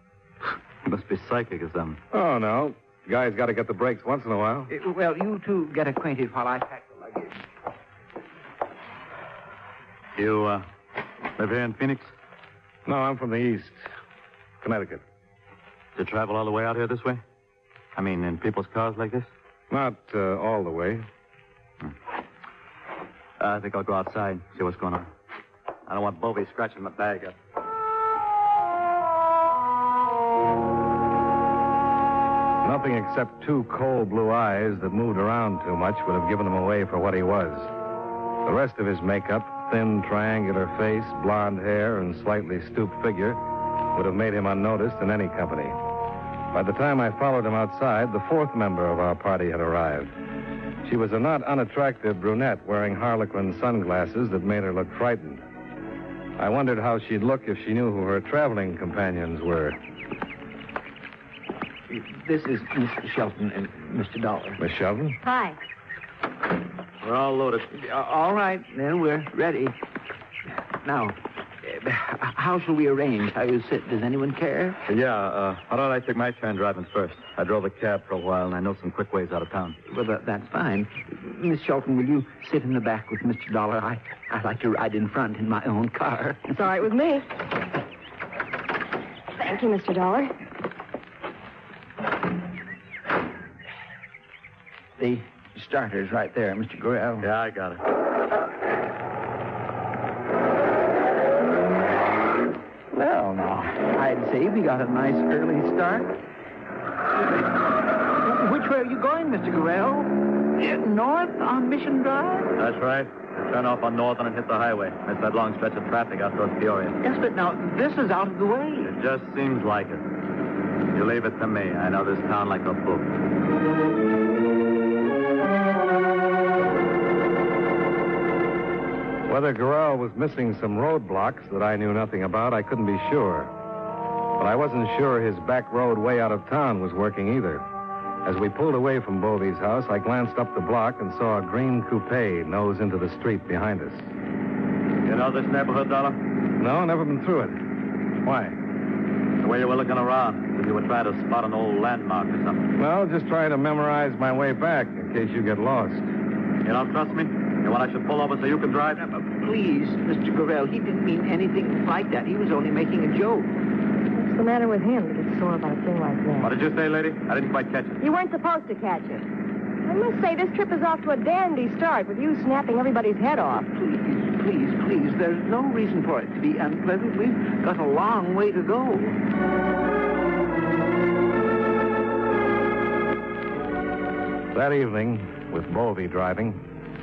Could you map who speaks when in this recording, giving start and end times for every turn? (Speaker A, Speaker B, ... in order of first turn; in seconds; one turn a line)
Speaker A: 0.8-2.0
Speaker B: 2.1-4.7
Speaker C: 4.7-7.4
Speaker A: 10.2-10.7
Speaker A: 11.3-12.1
Speaker B: 12.8-13.9
Speaker B: 14.6-15.0
Speaker A: 15.9-17.2
Speaker A: 17.9-19.3
Speaker B: 19.7-21.1
Speaker A: 23.4-25.1
Speaker A: 25.9-27.4
Speaker B: 32.6-37.7
Speaker B: 38.4-43.4
Speaker B: 43.9-45.8
Speaker B: 46.5-50.1
Speaker B: 50.8-55.4
Speaker B: 56.4-59.8
Speaker C: 61.9-64.6
Speaker B: 64.6-65.2
Speaker D: 65.2-65.6
Speaker A: 67.0-67.7
Speaker C: 67.7-69.8
Speaker C: 70.8-74.8
Speaker A: 74.9-79.8
Speaker C: 79.9-86.6
Speaker D: 86.5-87.3
Speaker D: 89.4-90.3
Speaker C: 95.0-97.3
Speaker A: 97.2-97.8
Speaker C: 102.9-106.1
Speaker C: 108.2-112.5
Speaker A: 112.5-117.0
Speaker C: 117.0-118.9
Speaker A: 118.8-120.0
Speaker A: 120.9-123.1
Speaker B: 129.3-133.5
Speaker B: 134.4-137.7
Speaker B: 138.2-144.1
Speaker A: 145.0-146.2
Speaker B: 146.6-147.7
Speaker B: 148.2-148.6
Speaker A: 149.4-152.7
Speaker B: 152.8-156.1
Speaker A: 156.6-159.0
Speaker C: 158.9-163.6
Speaker D: 164.1-166.5
Speaker A: 166.4-168.0
Speaker D: 168.0-169.2
Speaker D: 169.8-173.7
Speaker C: 173.7-179.2
Speaker B: 184.5-186.6